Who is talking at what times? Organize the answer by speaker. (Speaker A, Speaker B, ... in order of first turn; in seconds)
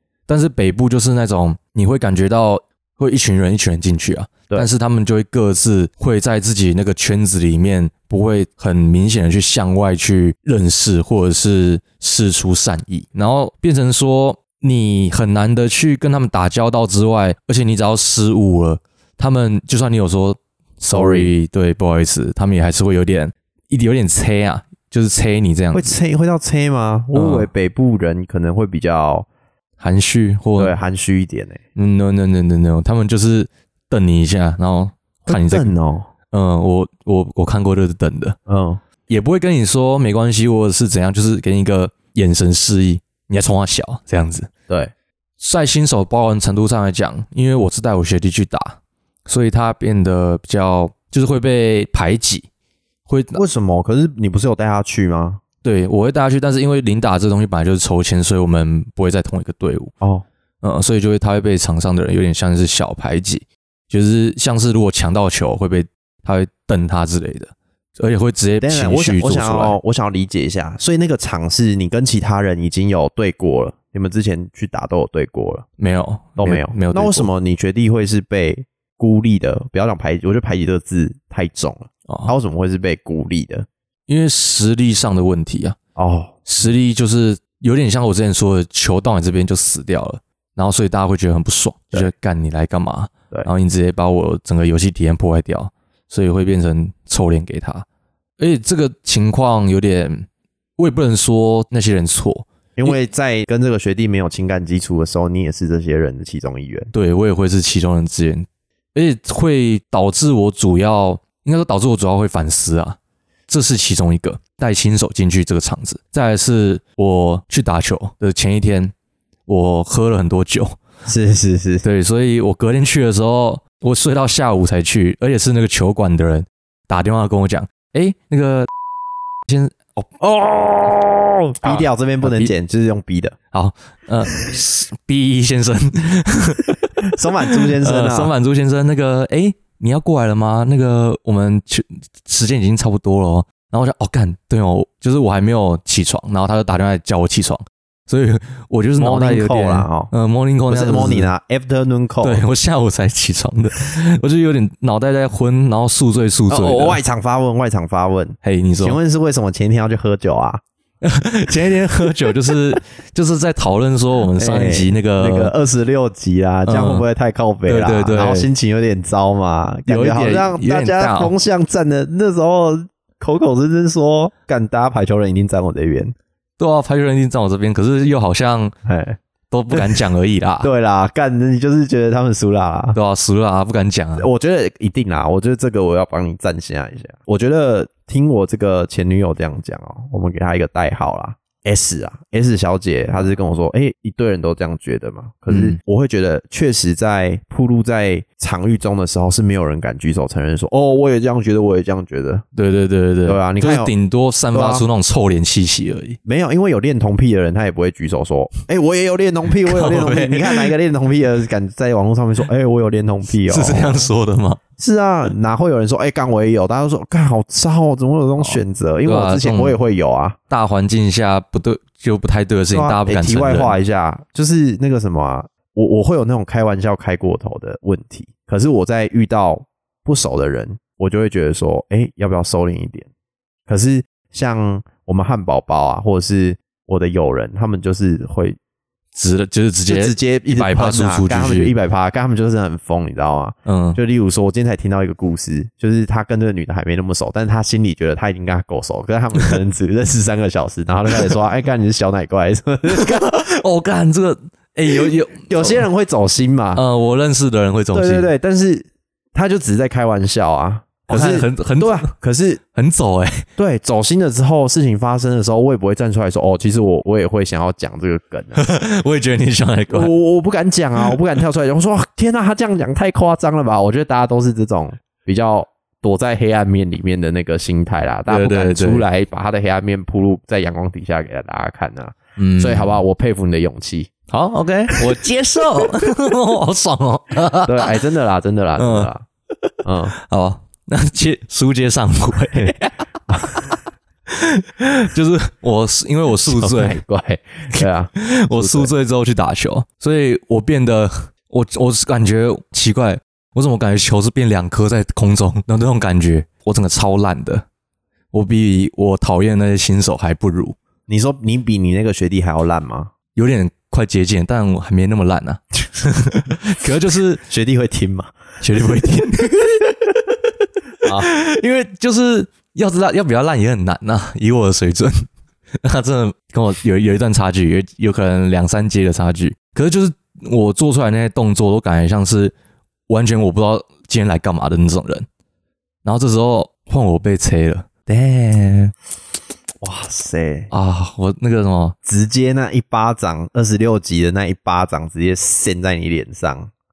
Speaker A: 0.3-26.0, 27.1-27.5, 29.8-30.8, 31.8-35.7, 36.3-38.4, 39.1-44.5, 45.4-52.5, 53.1-53.4, 55.6-59.9, 60.6-69.8, 75.8-77.3, 82.1-82.3, 84.1-85.8, 86.5-97.9, 98.4-100.3, 100.8-103.0, 106.9-118.9, 119.5-120.8, 121.8-128.7, 129.5-130.2, 131.6-132.5, 133.5-151.3, 152.2-157.0, 158.4-159.0, 161.0-165.5, 166.7-167.1, 167.7-168.5, 169.9-171.3, 176.6-178.7, 179.5-180.7, 182.9-184.3, 195.5-195.8, 202.6-206.2, 209.7-210.7, 213.4-214.6, 218.4-219.8, 220.5-223.8, 239.2-241.7, 243.7-244.0, 252.9-255.9, 256.8-258.3, 261.1-262.1, 262.8-263.5, 268.6-270.1, 278.3-279.1, 282.4-283.0, 284.3-287.9, 288.8-289.1, 289.6-293.1, 294.3-297.0, 297.7-307.6, 308.3-310.8, 313.4-317.4, 318.6-320.4, 321.1-325.3, 325.8-332.6, 333.1-335.3, 336.0-338.9, 340.7-342.0
Speaker B: 20.9-21.3, 25.7-29.3, 30.6-31.6, 35.3-36.1, 38.5-38.8, 53.4-55.4, 60.0-60.3, 68.6-75.7, 76.4-83.7, 86.0-86.5, 102.8-106.9, 121.1-121.8, 130.3-133.4, 137.0-138.3, 149.0-150.1, 150.7-152.4, 156.5-160.6, 164.4-176.1, 178.9-179.2, 179.7-180.0, 180.6-183.0, 184.2-202.4, 203.2-203.9, 204.5-204.9, 206.2-214.1, 214.8-220.4, 222.7-233.1, 233.7-238.6, 239.9-253.3, 254.9-256.8, 257.9-262.6, 263.6-268.6, 269.9-284.1, 287.6-289.3, 289.8-290.1, 293.3-293.6, 296.5-298.9, 311.1-313.1, 317.5-318.3, 321.0-321.3, 339.8-340.7, 342.1-346.7